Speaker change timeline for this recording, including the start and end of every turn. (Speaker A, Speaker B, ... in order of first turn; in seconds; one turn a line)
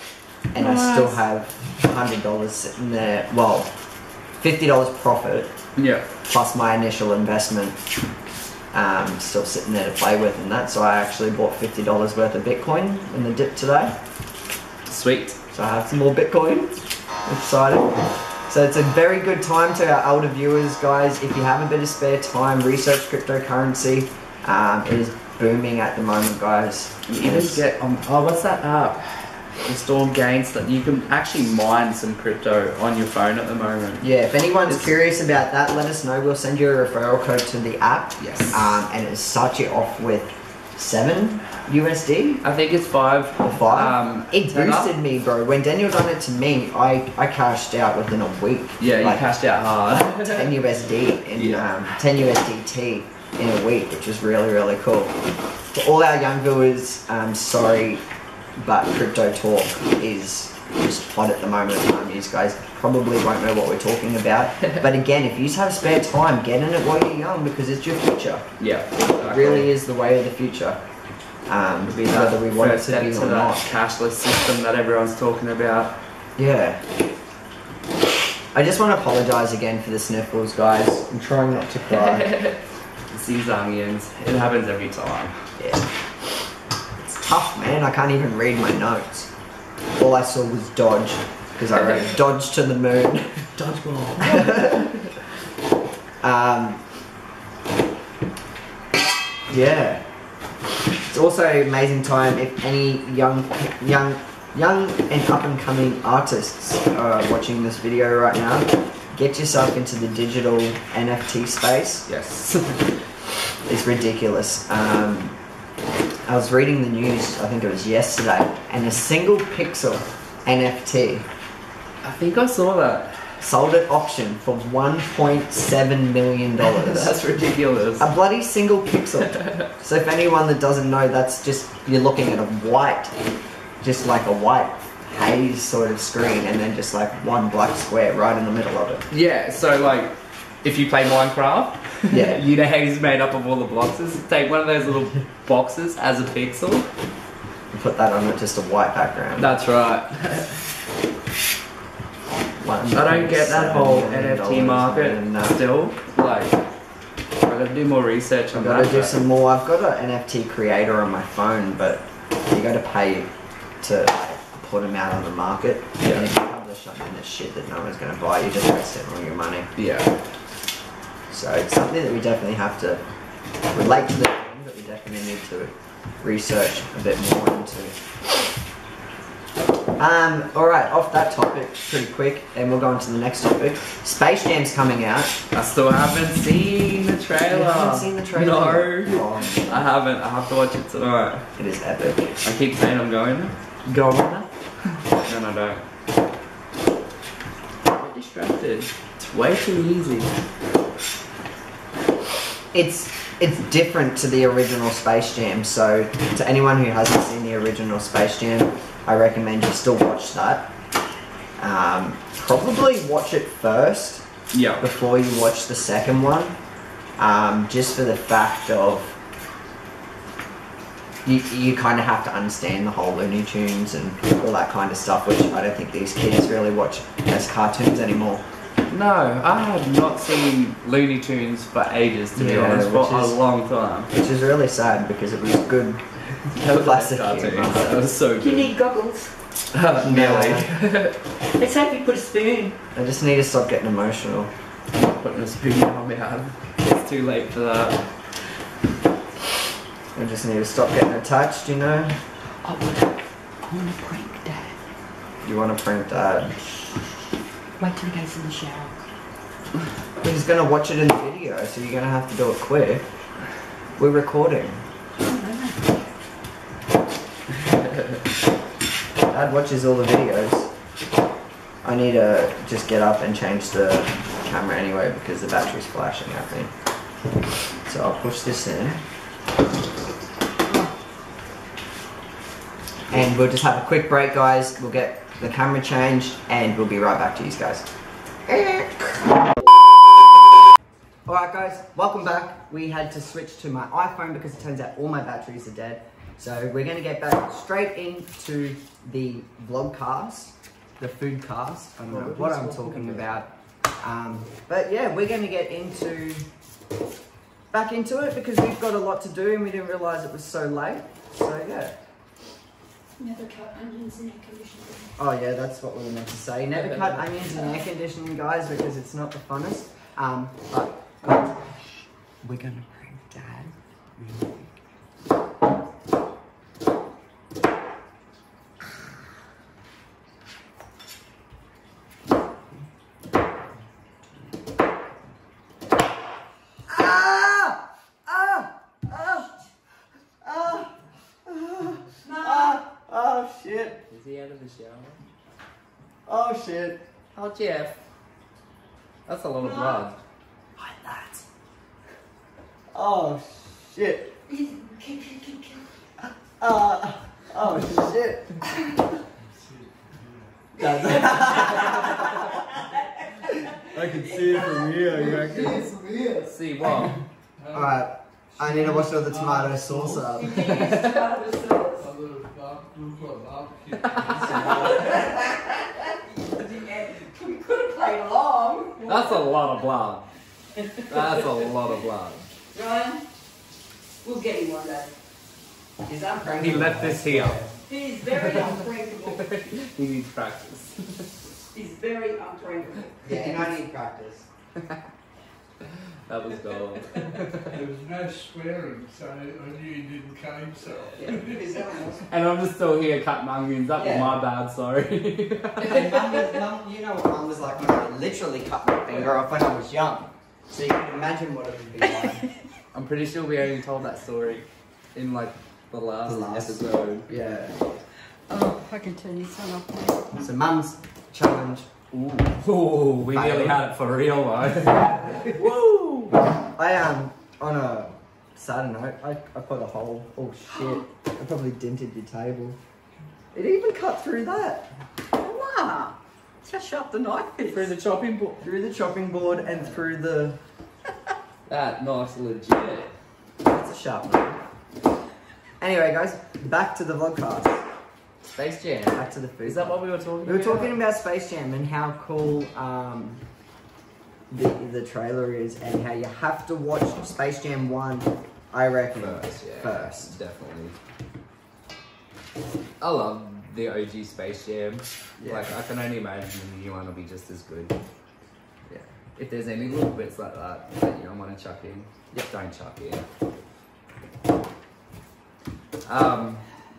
Speaker A: 0.5-3.7
Speaker B: 0.5-1.2
Speaker A: 4.4-5.5
Speaker B: 5.8-6.1
Speaker A: 6.2-7.8
Speaker A: 8.7-13.9
Speaker B: 14.8-15.4
Speaker A: 15.5-27.6
Speaker B: 27.1-34.1
Speaker A: 34.0-42.4
Speaker B: 38.2-38.7
Speaker B: 42.4-45.0
Speaker A: 43.4-58.0
Speaker B: 48.8-50.6
Speaker B: 51.3-52.0
Speaker A: 58.5-68.5
Speaker B: 68.6-69.7
Speaker A: 69.2-70.8
Speaker A: 71.5-73.7
Speaker B: 72.0-76.0
Speaker A: 76.4-76.8
Speaker A: 78.5-82.3
Speaker B: 81.9-85.5
Speaker A: 85.6-85.9
Speaker A: 87.0-89.3
Speaker A: 90.0-93.6
Speaker A: 94.2-94.9
Speaker B: 94.2-95.1
Speaker A: 96.2-96.8
Speaker A: 99.5-100.0
Speaker A: 101.0-112.1
Speaker B: 112.1-113.0
Speaker A: 113.7-115.3
Speaker A: 116.2-121.3
Speaker B: 122.0-123.4
Speaker A: 123.4-127.1
Speaker B: 126.6-128.1
Speaker A: 128.0-133.1
Speaker B: 129.3-129.7
Speaker A: 133.8-139.1
Speaker B: 139.1-146.9
Speaker A: 142.1-142.4
Speaker A: 147.7-149.6
Speaker B: 149.3-150.7
Speaker A: 152.6-155.6
Speaker B: 152.9-156.6
Speaker B: 157.4-159.2
Speaker A: 158.5-169.7
Speaker B: 166.0-166.3
Speaker B: 169.8-170.1
Speaker A: 171.3-173.0
Speaker A: 173.7-177.9
Speaker A: 180.0-185.4
Speaker B: 185.5-191.5
Speaker A: 187.5-189.9
Speaker A: 191.6-192.4
Speaker B: 192.4-193.6
Speaker A: 193.8-194.5
Speaker B: 195.1-195.8
Speaker B: 197.9-200.3
Speaker A: 202.7-210.7
Speaker A: 211.6-214.2
Speaker B: 214.5-214.8
Speaker A: 214.8-216.5
Speaker A: 217.2-219.2
Speaker A: 221.2-228.4
Speaker B: 228.9-234.1
Speaker A: 232.3-233.4
Speaker A: 234.1-237.9
Speaker B: 236.4-238.7
Speaker C: 238.4-239.3
Speaker B: 239.7-241.2
Speaker A: 240.0-240.7
Speaker C: 241.4-242.8
Speaker A: 242.9-244.5
Speaker B: 244.9-248.2
Speaker A: 250.1-252.2
Speaker C: 252.6-254.8
Speaker A: 255.4-256.6
Speaker C: 257.8-258.9
Speaker A: 260.2-263.1
Speaker A: 263.9-264.8
Speaker C: 265.2-266.0
Speaker A: 269.3-270.7
Speaker A: 271.8-276.7
Speaker A: 277.9-279.0
Speaker A: 283.1-287.9
Speaker A: 288.5-289.5
Speaker A: 291.2-306.4
Speaker B: 302.1-303.3
Speaker A: 307.7-312.0
Speaker D: 313.2-315.1
Speaker A: 315.2-321.7
Speaker B: 316.7-317.4
Speaker A: 322.4-324.6
Speaker A: 336.9-339.5
Speaker A: 340.4-344.0
Speaker C: 342.2-342.8
Speaker B: 344.1-345.2
Speaker A: 346.3-347.0
Speaker B: 347.3-348.0
Speaker B: 349.2-350.2
Speaker C: 349.6-350.1
Speaker A: 350.8-351.4
Speaker A: 352.9-354.3
Speaker C: 354.5-355.8
Speaker A: 356.6-358.7
Speaker E: 359.4-360.5
Speaker A: 360.8-362.6
Speaker C: 361.1-366.5
Speaker A: 363.9-365.8
Speaker E: 364.0-366.2
Speaker B: 366.4-367.2
Speaker E: 367.6-368.0
Speaker A: 367.7-370.6
Speaker E: 368.5-370.2
Speaker C: 370.2-372.1
Speaker B: 370.6-371.3
Speaker E: 372.0-374.9
Speaker B: 373.9-374.7
Speaker A: 374.4-375.1
Speaker C: 374.5-379.7
Speaker B: 379.0-380.3
Speaker C: 380.8-381.6
Speaker B: 381.1-382.5
Speaker C: 382.7-383.2
Speaker C: 384.2-385.1
Speaker A: 386.1-387.7
Speaker B: 386.6-387.6
Speaker C: 387.9-389.5
Speaker B: 389.3-391.3
Speaker C: 391.7-393.8
Speaker A: 393.2-394.5
Speaker B: 394.8-395.0
Speaker B: 395.8-397.8
Speaker E: 397.6-401.9
Speaker A: 401.2-402.2
Speaker B: 402.2-406.6
Speaker A: 403.9-404.4
Speaker A: 405.8-412.5
Speaker B: 409.1-409.4
Speaker B: 412.9-417.3
Speaker A: 416.2-417.8
Speaker C: 418.5-420.3
Speaker A: 420.4-421.9
Speaker B: 422.1-426.3
Speaker A: 423.3-423.8
Speaker A: 425.7-432.8
Speaker A: 433.5-434.9
Speaker C: 435.3-436.1
Speaker A: 436.7-437.9
Speaker B: 437.7-438.7
Speaker A: 438.6-440.6
Speaker B: 441.7-443.1
Speaker A: 443.6-444.6
Speaker A: 445.8-447.8
Speaker B: 448.6-450.9
Speaker A: 449.1-453.4
Speaker A: 454.5-460.3
Speaker B: 459.1-460.9
Speaker B: 463.0-468.0
Speaker A: 465.4-465.7
Speaker B: 469.4-473.2
Speaker B: 476.0-476.6